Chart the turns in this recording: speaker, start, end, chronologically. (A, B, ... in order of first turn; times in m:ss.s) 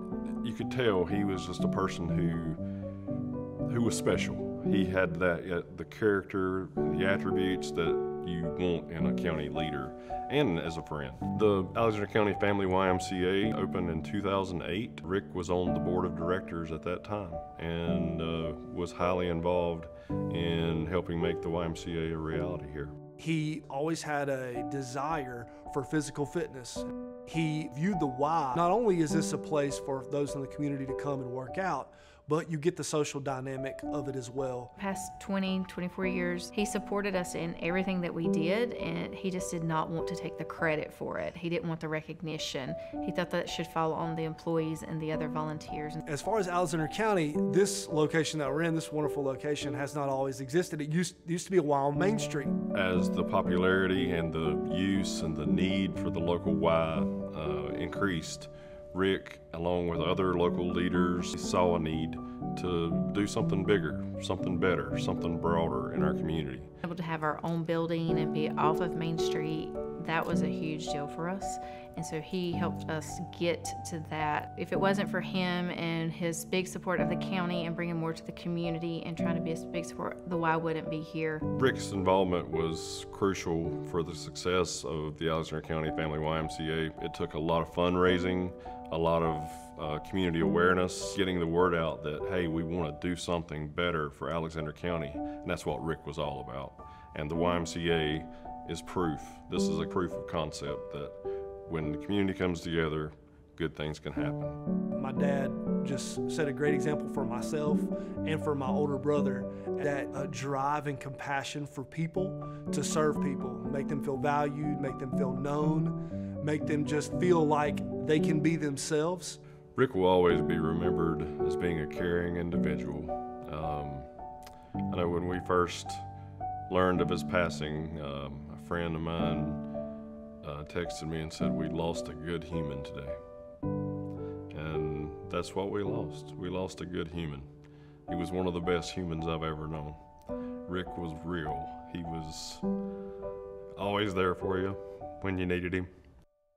0:00.4-0:02.6 A
0:03.6-0:22.9 A
0:23.2-0:34.7 B
0:34.8-0:46.0 C
0:46.0-0:52.6 B
0:52.7-1:06.7 A
1:06.8-1:21.4 C
1:21.5-1:44.6 A
1:45.0-1:59.4 B
1:59.7-2:04.1 A
2:04.9-2:06.0 A
2:06.7-2:09.7 A
2:10.4-2:13.2 A
2:14.5-2:17.5 A
2:18.1-2:20.0 A
2:20.7-2:22.6 A
2:23.8-2:25.9 A